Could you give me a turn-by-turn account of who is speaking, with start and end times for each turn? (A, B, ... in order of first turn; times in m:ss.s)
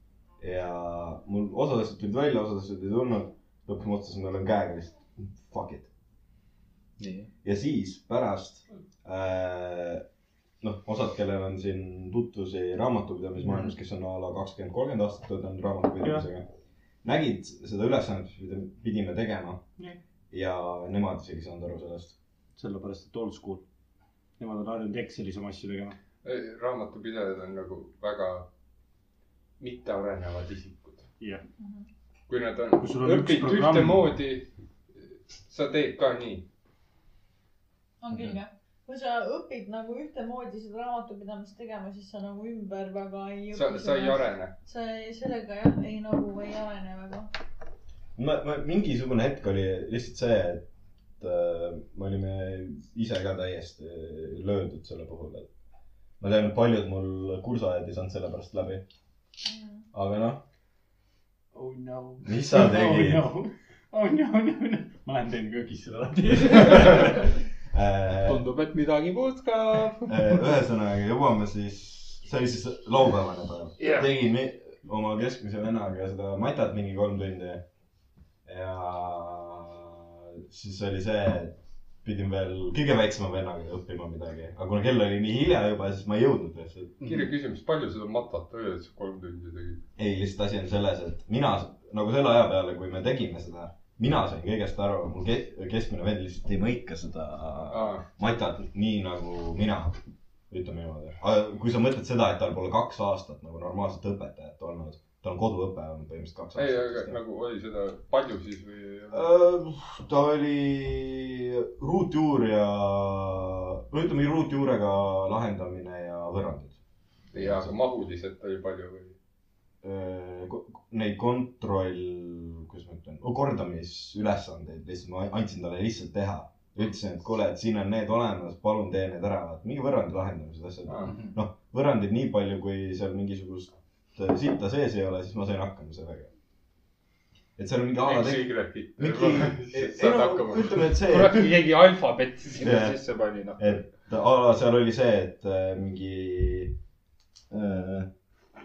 0:00.4-0:05.9 A
0:07.0-0:07.3 B
0:07.4-0:10.0 A
0:10.6-0:16.4 A
0:17.0-0:19.6 A
0:20.3-0:22.2 A
0:22.6-0:23.6 C
0:24.4-0:26.0 C
0:26.2-0:28.5 D
0:29.6-0:31.1 D
0:31.6-0:31.9 E
0:32.3-0:34.5 D
0:32.8-0:34.2 C
0:35.4-0:36.4 D
0:38.0-0:47.3 E
0:43.5-0:44.5 D
0:48.2-0:50.6 A
0:51.2-0:55.5 A
0:56.2-0:58.8 A
0:59.4-0:59.8 E
0:59.9-1:00.4 A
1:01.5-1:07.1 C
1:02.2-1:03.3 A
1:06.5-1:07.2 A
1:06.7-1:07.1 B
1:07.7-1:08.5 A
1:08.2-1:10.2 B
1:10.1-1:17.6 A
1:13.8-1:14.1 B
1:18.4-1:27.0 A
1:27.0-1:29.8 D
1:30.0-1:47.2 A
1:37.7-1:38.0 D
1:46.5-1:49.2 D
1:49.1-1:56.8 A
1:57.3-1:59.1 D
1:57.3-1:57.8 A
1:59.8-2:16.3 A
2:10.9-2:11.2 D
2:17.6-2:21.6 A
2:18.0-2:20.8 D
2:21.0-2:23.8 B
2:22.6-2:23.0 A
2:23.6-2:26.8 A
2:27.5-2:28.1 A